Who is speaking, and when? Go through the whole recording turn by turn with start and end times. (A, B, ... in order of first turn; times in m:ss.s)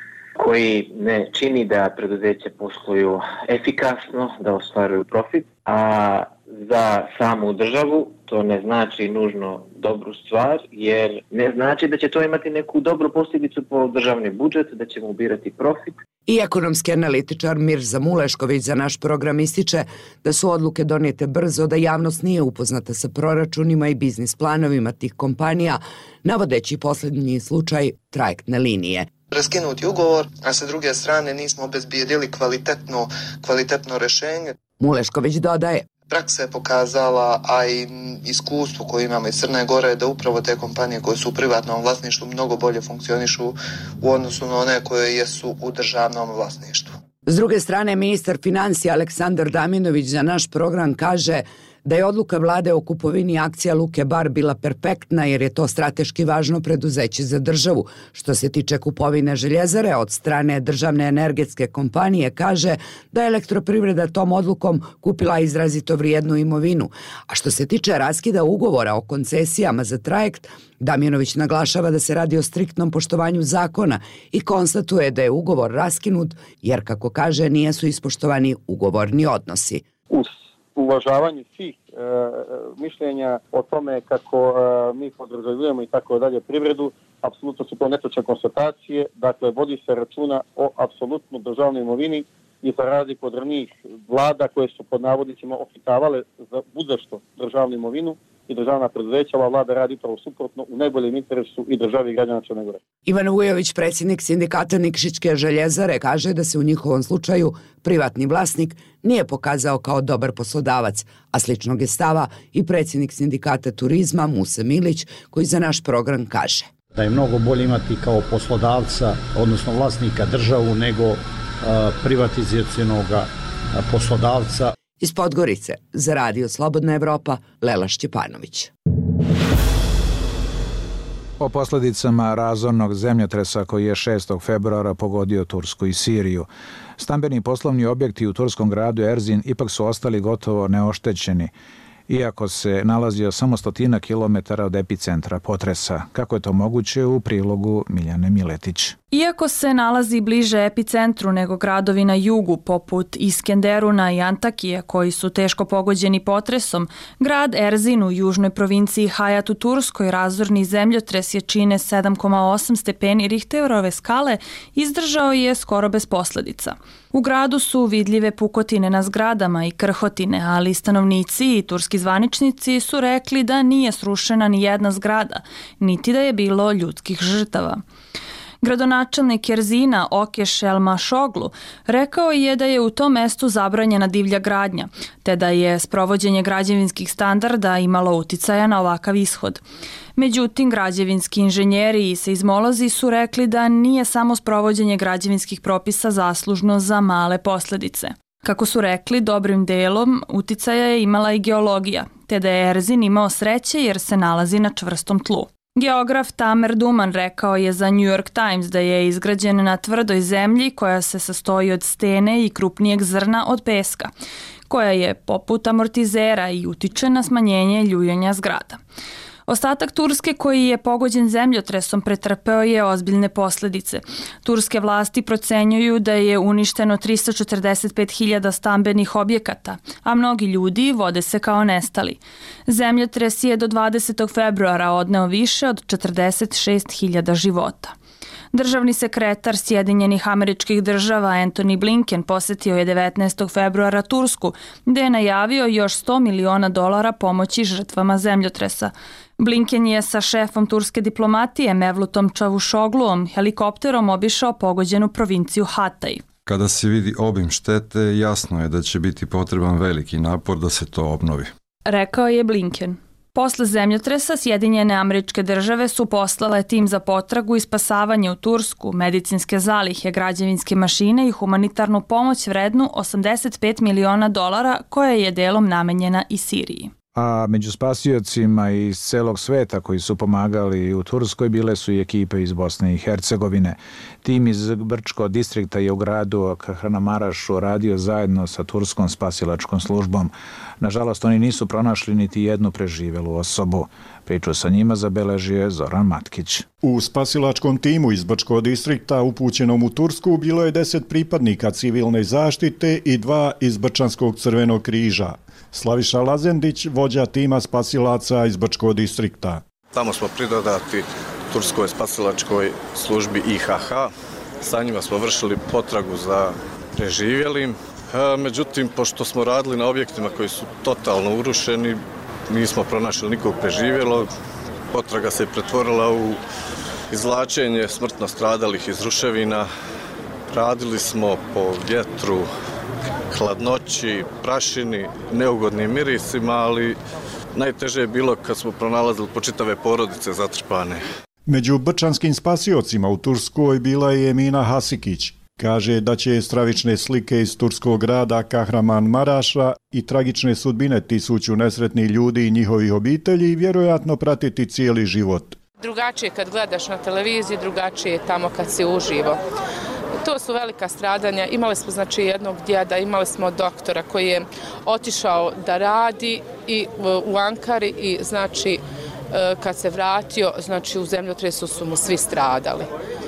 0:00.4-0:16.0 A
0:16.3-0:29.1 B
0:29.3-0:34.5 C
0:34.8-0:35.9 B
0:36.1-0:47.0 C
0:47.2-1:19.8 B
1:20.1-1:42.8 D
1:43.0-1:56.7 B
1:56.9-2:04.7 E
2:05.0-2:08.7 B
2:11.4-2:21.5 F
2:22.1-2:29.0 F
2:29.1-2:57.8 G
2:58.6-3:09.6 G
3:10.2-3:34.1 G
3:34.7-3:38.8 G
3:39.5-3:57.9 G
3:58.5-4:16.2 G
4:16.4-4:21.5 H
4:21.8-4:36.9 G
4:37.1-4:56.7 F
4:56.8-5:09.6 I
5:09.9-5:24.3 J
5:24.9-5:26.4 J
5:27.1-5:29.7 J
5:30.5-5:32.5 J
5:33.3-5:37.0 J
5:37.5-5:41.0 J
5:41.4-5:55.6 I
5:55.8-5:59.4 K
6:00.2-6:12.9 K